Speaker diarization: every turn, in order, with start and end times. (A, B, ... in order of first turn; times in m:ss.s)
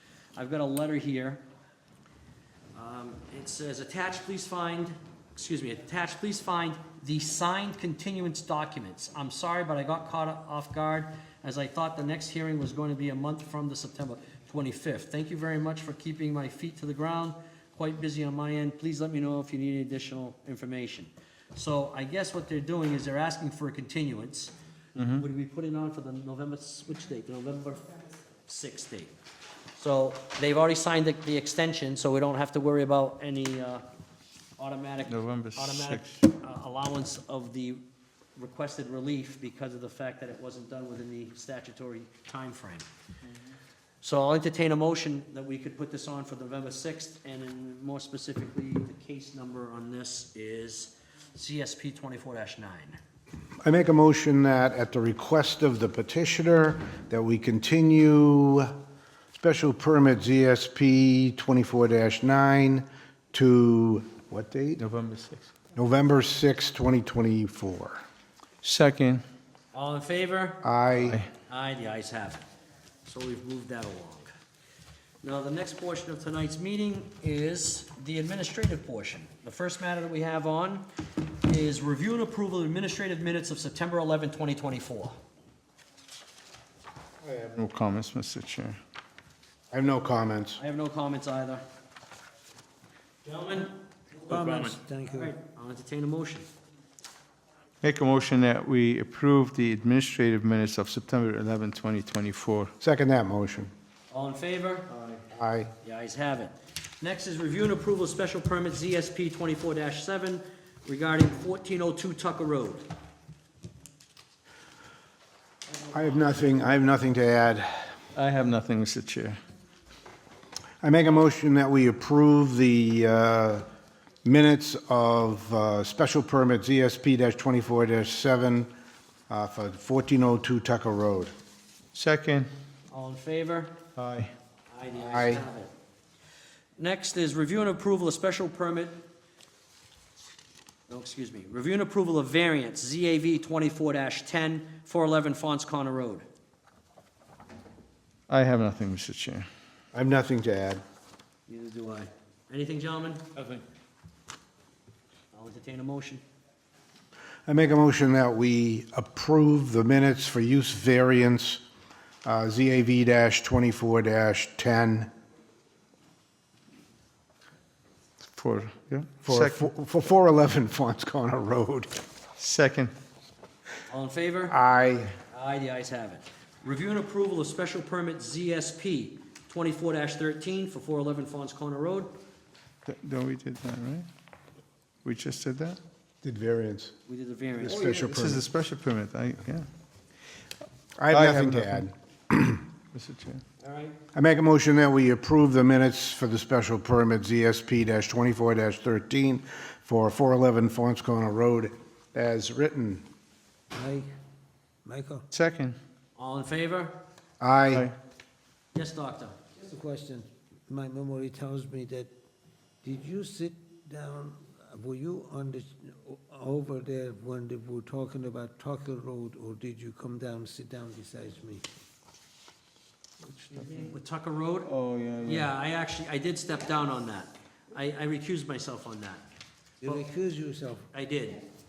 0:00.3-0:01.4 A
0:02.7-0:24.5 A
0:25.0-0:25.2 B
0:25.2-0:29.1 A
0:29.7-0:33.8 A
0:34.6-0:37.8 A
0:35.1-0:36.2 B
0:38.4-0:42.9 A
0:44.0-0:53.0 A
0:53.6-0:58.7 C
0:59.4-1:04.8 C
1:04.8-1:05.5 B
1:05.8-1:08.0 C
1:08.6-1:09.2 B
1:09.7-1:10.6 A
1:10.6-1:11.2 C
1:11.0-1:11.3 B
1:11.5-1:12.4 A
1:13.0-1:14.3 A
1:15.2-1:20.8 A
1:21.4-1:25.2 A
1:27.2-1:28.8 B
1:29.7-1:30.6 C
1:30.6-1:31.6 A
1:33.2-1:33.7 A
1:34.2-1:36.5 A
1:34.3-1:35.3 D
1:37.8-1:42.7 B
1:42.8-1:43.7 C
1:44.1-1:44.9 A
1:45.3-1:45.7 C
1:45.8-1:52.9 A
1:55.7-1:56.7 A
1:55.9-1:58.0 C
1:58.1-1:59.4 B
2:00.8-2:03.6 C
2:04.2-2:08.7 C
2:09.3-2:11.3 C
2:11.9-2:12.5 B
2:12.9-2:13.8 A
2:14.0-2:14.3 B
2:14.7-2:15.7 A
2:15.0-2:15.4 C
2:16.8-2:19.0 A
2:20.9-2:26.2 A
2:28.3-2:29.4 B
2:29.9-2:30.8 C
2:31.5-2:33.4 A
2:35.3-2:36.2 A
2:37.4-2:41.6 C
2:42.2-2:45.1 C
2:48.4-2:49.7 B
2:49.2-2:51.9 C
2:52.4-2:52.9 B
2:53.9-2:54.6 A
2:54.5-2:55.2 C
2:55.3-3:02.2 A
3:02.8-3:04.1 B
3:05.0-3:05.8 B
3:06.2-3:06.9 C
3:07.1-3:07.8 A
3:07.6-3:08.4 C
3:07.7-3:09.7 B
3:11.0-3:12.6 C
3:11.1-3:11.8 B
3:12.9-3:13.4 B
3:13.6-3:14.0 A
3:14.1-3:23.0 C
3:23.7-3:24.1 D
3:24.8-3:25.2 D
3:25.3-3:25.8 B
3:26.2-3:27.0 A
3:27.4-3:27.9 C
3:28.7-3:29.3 A
3:29.6-3:32.1 D
3:32.8-3:41.6 D
3:43.2-3:43.9 D
3:43.7-3:44.7 A
3:44.6-3:45.5 B
3:45.2-3:49.2 A
3:49.8-3:50.9 D
3:50.9-3:51.4 A